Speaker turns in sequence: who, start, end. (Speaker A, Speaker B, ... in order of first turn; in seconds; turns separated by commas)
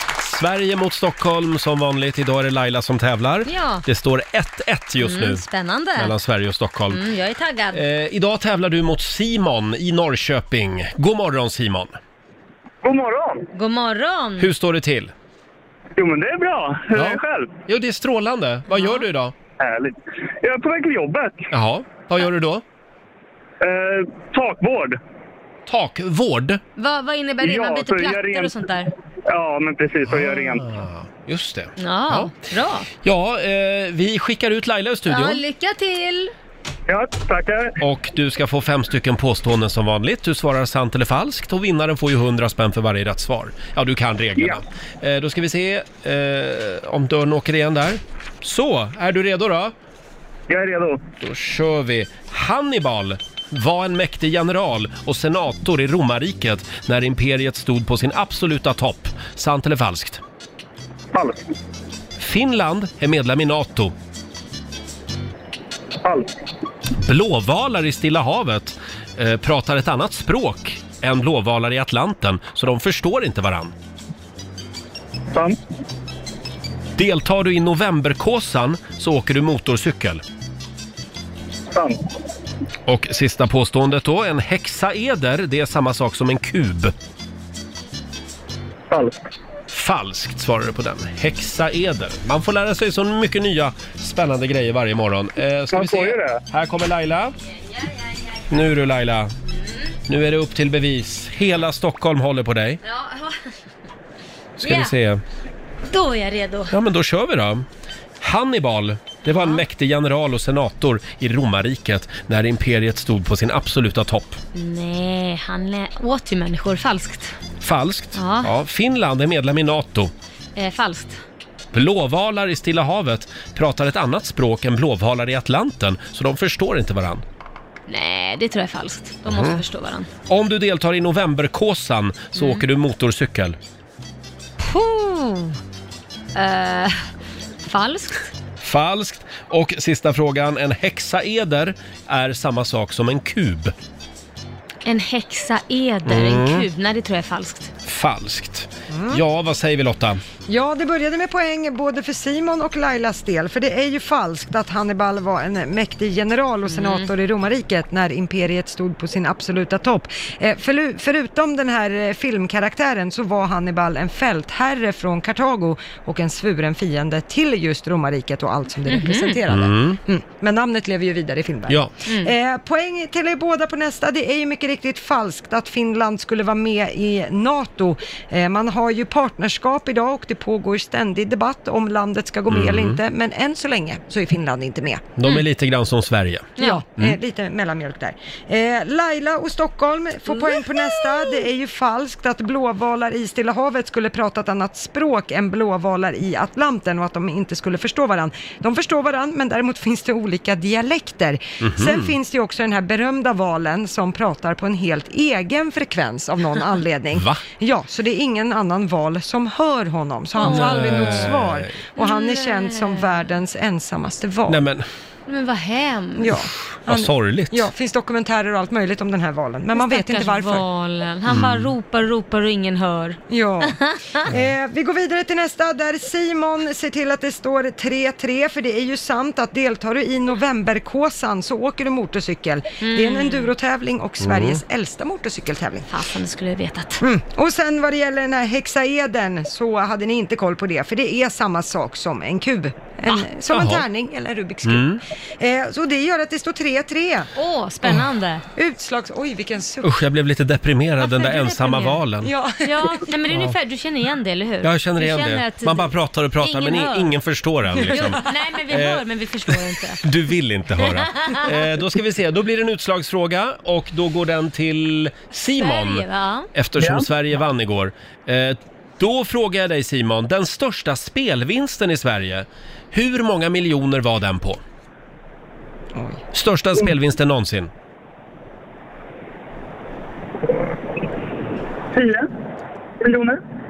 Speaker A: 0.2-5.4, Speaker B: 3.5-3.9, Speaker B: 5.0-6.1, Speaker A: 6.0-7.0, Speaker B: 6.9-7.8, Speaker A: 7.7-12.0, Speaker C: 12.8-13.5, Speaker B: 13.5-14.5, Speaker A: 14.4-15.1, Speaker C: 16.0-17.6, Speaker A: 16.9-19.4, Speaker B: 18.7-19.0, Speaker C: 19.6-21.5, Speaker A: 21.5-22.6, Speaker C: 23.6-25.0, Speaker A: 25.7-26.6, Speaker B: 26.8-28.9, Speaker C: 27.4-28.5, Speaker C: 29.3-30.6, Speaker A: 30.1-32.3, Speaker B: 31.8-32.9, Speaker A: 33.0-35.4, Speaker B: 35.1-36.3, Speaker C: 36.9-37.8, Speaker A: 37.8-49.8, Speaker C: 50.5-51.0, Speaker A: 51.2-60.2, Speaker C: 61.1-61.4, Speaker A: 62.2-63.9, Speaker C: 66.0-66.3, Speaker A: 67.0-73.7, Speaker A: 77.0-80.2, Speaker C: 81.7-82.0, Speaker A: 82.9-86.9, Speaker C: 88.9-89.2, Speaker A: 89.7-97.4, Speaker C: 95.7-96.4, Speaker B: 97.7-98.5, Speaker A: 98.5-99.3, Speaker B: 99.5-99.9, Speaker A: 100.1-102.8, Speaker B: 102.8-103.4, Speaker A: 104.6-105.2, Speaker B: 104.6-104.9, Speaker B: 105.9-106.8, Speaker A: 106.7-107.7, Speaker A: 108.2-114.4, Speaker B: 114.5-117.4, Speaker A: 117.6-120.1, Speaker B: 118.2-118.5, Speaker B: 120.6-121.2, Speaker A: 121.7-127.2, Speaker B: 127.9-130.1, Speaker A: 129.3-129.6, Speaker A: 130.3-133.6, Speaker B: 132.3-132.7, Speaker B: 134.6-135.6, Speaker B: 136.3-137.1, Speaker B: 137.6-138.3, Speaker A: 138.6-143.7, Speaker B: 144.8-147.7, Speaker A: 146.1-146.7, Speaker A: 147.8-150.2, Speaker D: 148.9-149.2, Speaker D: 150.5-185.0, Speaker B: 156.7-157.1, Speaker B: 168.9-169.4, Speaker A: 169.5-170.0, Speaker B: 172.1-172.3, Speaker A: 182.5-183.0, Speaker A: 185.2-187.2, Speaker D: 186.6-214.6, Speaker A: 201.6-202.2, Speaker A: 207.1-207.4, Speaker B: 210.4-211.3, Speaker A: 210.4-211.8, Speaker B: 212.0-213.1, Speaker A: 214.5-214.9, Speaker B: 215.3-216.3, Speaker D: 216.2-220.6, Speaker A: 216.9-217.7, Speaker B: 219.8-224.2, Speaker A: 221.3-221.7, Speaker D: 223.3-235.9, Speaker B: 232.8-233.5, Speaker A: 234.2-234.6, Speaker B: 235.9-237.0, Speaker D: 237.0-244.9, Speaker A: 243.5-243.8, Speaker A: 244.6-245.0, Speaker D: 245.4-247.3, Speaker B: 247.3-248.4, Speaker D: 248.6-249.9, Speaker A: 249.8-252.3, Speaker B: 251.0-252.0, Speaker D: 252.2-253.1, Speaker B: 252.6-257.1, Speaker A: 253.3-253.6, Speaker A: 254.6-274.6, Speaker B: 257.9-260.0, Speaker B: 260.8-261.5, Speaker B: 265.6-266.5, Speaker C: 266.8-267.1, Speaker D: 275.9-276.2, Speaker A: 276.3-277.7, Speaker C: 281.9-282.3, Speaker C: 283.0-283.4